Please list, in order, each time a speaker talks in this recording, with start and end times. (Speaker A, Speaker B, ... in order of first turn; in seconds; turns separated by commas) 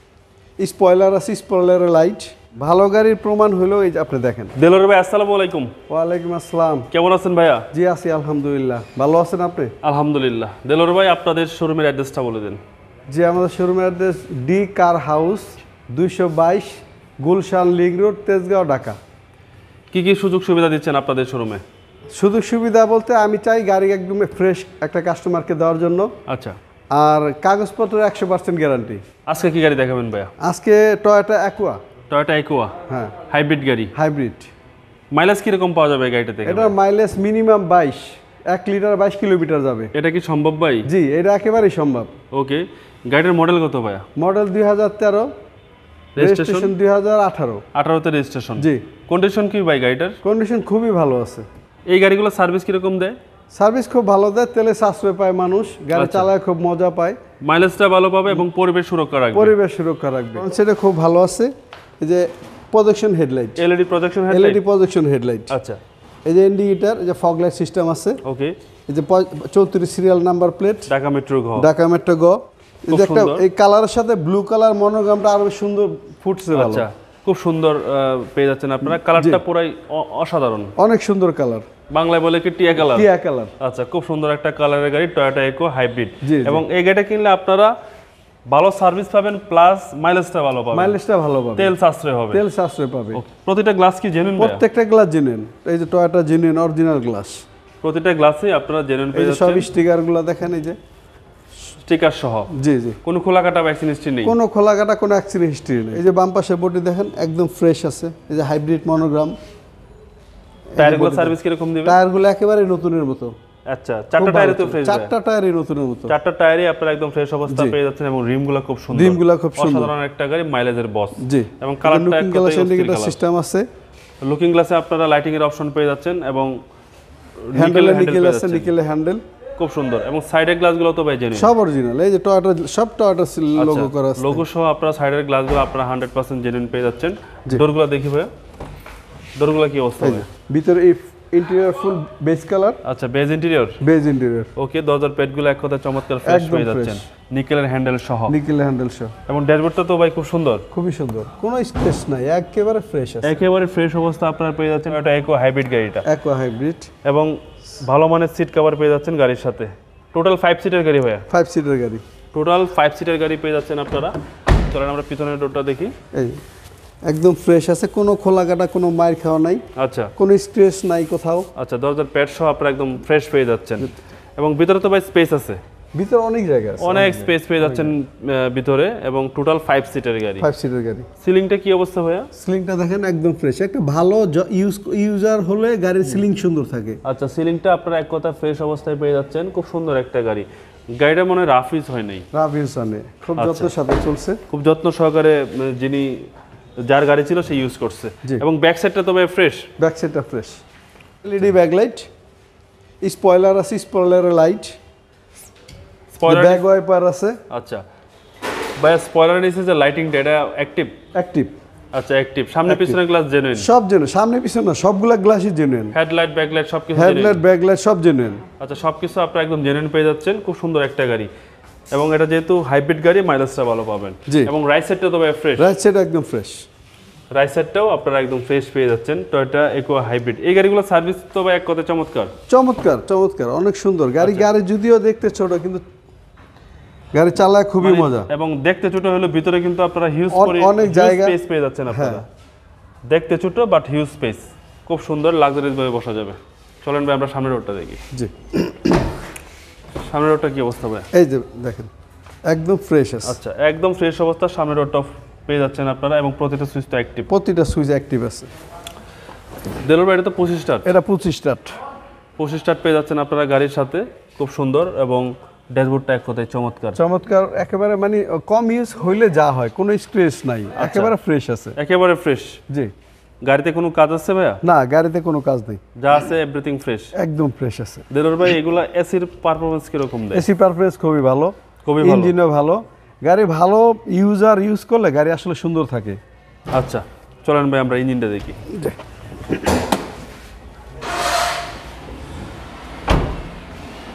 Speaker A: 0.6-4.5, Speaker B: 4.6-5.7, Speaker A: 5.9-6.9, Speaker B: 6.9-7.7, Speaker A: 7.7-9.8, Speaker B: 9.8-12.6, Speaker A: 13.1-19.0, Speaker B: 19.9-21.6, Speaker A: 22.1-26.1, Speaker B: 26.3-26.6, Speaker A: 26.9-29.0, Speaker B: 29.2-30.3, Speaker A: 30.4-31.8, Speaker B: 32.1-33.9, Speaker A: 32.9-33.1, Speaker A: 34.0-34.5, Speaker B: 35.1-36.7, Speaker A: 36.5-39.9, Speaker B: 39.9-40.9, Speaker A: 40.9-42.1, Speaker B: 42.3-44.0, Speaker A: 44.1-45.3, Speaker B: 46.1-46.7, Speaker A: 46.2-47.6, Speaker B: 47.7-50.2, Speaker A: 48.6-48.9, Speaker A: 50.2-51.5, Speaker B: 51.9-53.2, Speaker A: 53.5-57.2, Speaker B: 55.9-56.3, Speaker B: 57.4-59.5, Speaker A: 59.3-63.6, Speaker B: 63.6-64.6, Speaker A: 64.3-65.5, Speaker B: 65.5-65.8, Speaker A: 66.3-68.2, Speaker B: 68.2-68.6, Speaker A: 68.9-70.9, Speaker B: 70.9-71.7, Speaker A: 71.5-76.9, Speaker B: 72.9-73.5, Speaker B: 76.5-80.7, Speaker A: 79.0-79.4, Speaker A: 80.8-81.7, Speaker B: 81.9-83.1, Speaker A: 82.8-83.5, Speaker B: 83.6-87.8, Speaker A: 86.2-86.6, Speaker B: 88.5-91.0, Speaker A: 90.7-91.7, Speaker B: 91.6-92.4, Speaker A: 92.3-93.2, Speaker B: 93.2-94.6, Speaker A: 94.4-97.4, Speaker B: 97.8-99.7, Speaker A: 99.1-100.8, Speaker B: 101.8-102.5, Speaker A: 102.5-103.0, Speaker B: 103.0-104.4, Speaker A: 104.2-109.3, Speaker A: 110.7-113.3, Speaker B: 110.8-112.0, Speaker B: 113.7-115.1, Speaker A: 114.2-116.1, Speaker B: 116.1-123.2, Speaker A: 117.5-117.8, Speaker A: 118.9-119.9, Speaker A: 121.2-123.7, Speaker B: 124.2-126.5, Speaker B: 127.4-128.7, Speaker A: 127.5-129.2, Speaker B: 129.6-131.5, Speaker A: 131.3-134.4, Speaker B: 133.6-138.3, Speaker B: 139.4-140.2, Speaker A: 140.0-142.8, Speaker B: 142.8-143.8, Speaker A: 143.8-144.5, Speaker B: 144.6-148.4, Speaker A: 146.2-147.0, Speaker A: 148.3-149.2, Speaker B: 149.3-150.7, Speaker A: 150.7-153.4, Speaker B: 153.2-156.1, Speaker A: 156.0-156.9, Speaker B: 157.0-161.2, Speaker A: 161.3-162.0, Speaker B: 162.3-164.2, Speaker B: 164.7-165.9, Speaker A: 166.1-166.4, Speaker A: 167.1-169.6, Speaker B: 169.8-170.1, Speaker A: 170.2-171.5, Speaker B: 171.6-175.6, Speaker A: 176.0-177.9, Speaker B: 176.8-180.5, Speaker A: 180.4-181.1, Speaker B: 181.2-182.3, Speaker A: 182.4-187.0, Speaker B: 187.0-192.3, Speaker A: 192.3-194.4, Speaker B: 193.4-193.7, Speaker B: 194.5-196.3, Speaker B: 196.8-199.7, Speaker A: 199.8-200.6, Speaker A: 201.2-202.1, Speaker A: 203.0-204.8, Speaker B: 206.1-206.7, Speaker A: 206.2-207.4, Speaker B: 207.5-207.8, Speaker B: 208.8-211.0, Speaker A: 211.2-211.6, Speaker B: 211.9-213.7, Speaker A: 212.7-213.0, Speaker A: 213.6-215.9, Speaker B: 215.9-217.4, Speaker A: 216.9-218.4, Speaker B: 218.6-221.3, Speaker B: 221.9-225.7, Speaker A: 225.6-226.7, Speaker B: 227.3-232.3, Speaker A: 232.5-235.8, Speaker B: 234.2-234.5, Speaker A: 237.1-238.3, Speaker B: 237.8-242.2, Speaker A: 240.3-241.4, Speaker A: 241.9-242.2, Speaker B: 243.1-248.0, Speaker A: 248.1-249.1, Speaker B: 250.0-251.1, Speaker A: 251.1-251.9, Speaker A: 252.5-253.4, Speaker B: 253.2-257.3, Speaker A: 257.3-258.5, Speaker B: 259.8-260.9, Speaker A: 260.9-261.8, Speaker B: 262.4-267.0, Speaker A: 266.9-271.8, Speaker B: 270.8-271.1, Speaker B: 271.8-272.6, Speaker B: 273.4-274.6, Speaker A: 274.6-275.8, Speaker B: 275.9-277.1, Speaker A: 277.1-278.1, Speaker B: 278.1-280.4, Speaker A: 280.3-286.2, Speaker B: 281.9-282.4, Speaker B: 286.7-288.6